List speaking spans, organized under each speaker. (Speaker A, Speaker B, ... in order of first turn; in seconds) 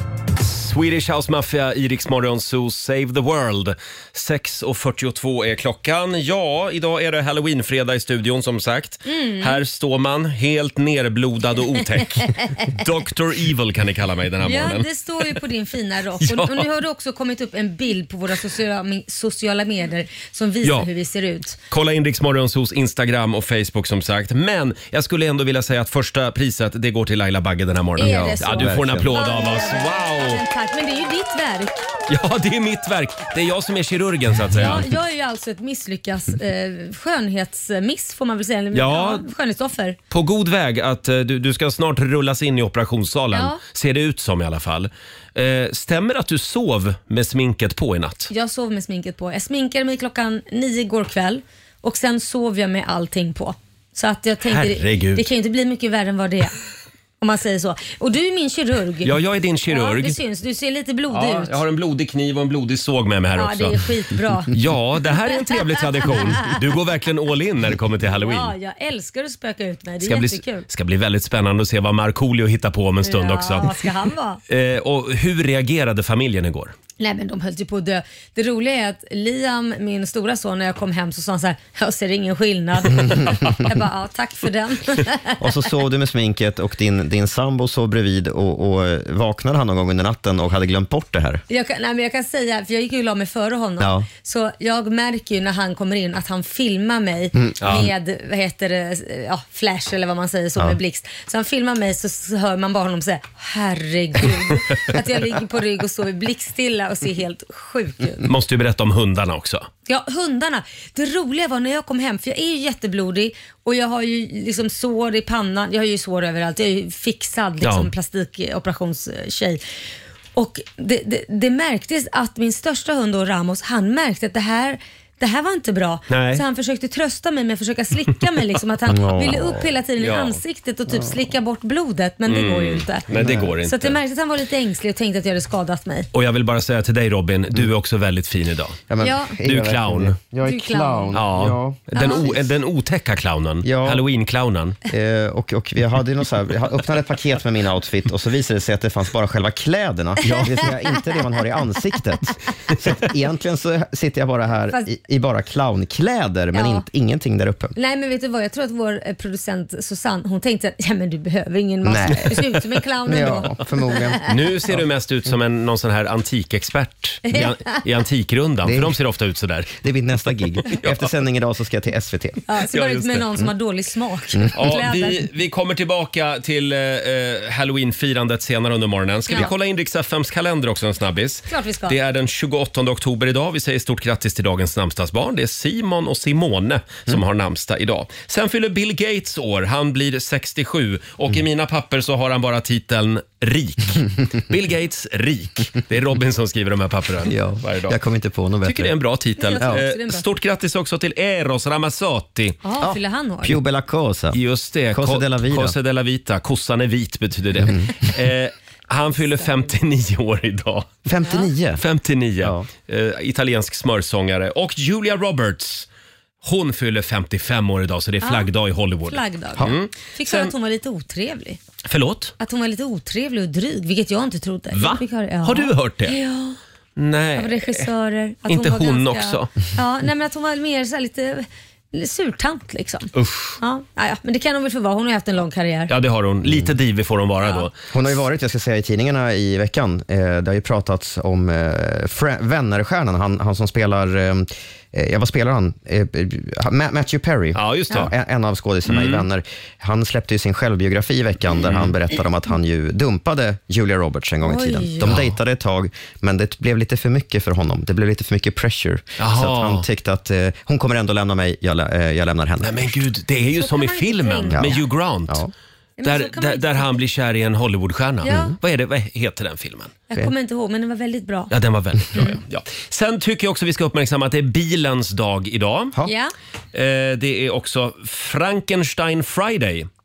Speaker A: 0.4-15.3, 16.2-16.7, 21.7-30.4, 32.1-34.9, 38.7-39.3, 40.1-48.3, 54.5-55.2, 59.0-60.2, 61.1-63.8, 64.5-68.5, 70.0-73.8, 74.5-76.7, 97.6-97.9, 108.2-109.7, 117.6-117.9, 126.1-126.4, 130.0-130.4, 132.2-134.0, 136.1-138.8, 139.4-140.2, 141.1-144.8, 164.3-169.8, 170.4-171.1, 172.7-173.4, 174.5-198.0, 198.6-202.6, 204.3-210.9, 211.8-215.9, 216.4-220.5, 221.9-222.3, 224.7-226.2, 226.9-227.9, 228.5-229.5, 233.1-233.6, 235.9-237.8, 247.5-248.1, 248.8-249.2, 251.7-251.9, 255.1-255.3, 259.2-259.9, 262.6-265.4, 266.0-269.9, 271.5-275.9, 276.7-279.9
Speaker B: 9.1-9.6, 12.2-12.7, 14.4-21.6, 28.0-31.9, 34.5-40.0, 43.3-43.6, 48.3-56.5, 57.2-59.1, 59.7-61.6, 63.4-64.5, 68.2-70.6, 73.0-74.4, 77.0-85.4, 91.5-108.3, 109.8-119.6, 120.3-133.1, 133.6-136.1, 139.0-139.3, 140.4-141.2, 141.9-142.2, 150.2-150.6, 156.5-156.8, 157.8-164.2, 167.3-167.8, 172.5-175.2, 181.5-182.0, 199.4-200.2, 202.6-203.6, 211.2-211.5, 218.2-218.5, 219.1-221.6, 222.4-226.6, 227.3-235.9, 254.4-255.2, 263.6-264.9, 266.0-267.0, 268.2-268.5, 270.1-271.5, 276.0-276.3
Speaker C: 28.0-29.1, 85.4-91.4, 93.8-94.1, 97.3-97.8, 128.9-129.7, 133.1-133.5, 138.9-142.4, 143.6-144.0, 144.9-157.7, 161.8-164.2, 168.6-169.0, 169.8-172.4, 197.2-198.9, 202.8-204.4, 204.9-205.8, 207.6-207.9, 211.1-211.8, 212.4-212.7, 237.9-262.8, 264.5-265.5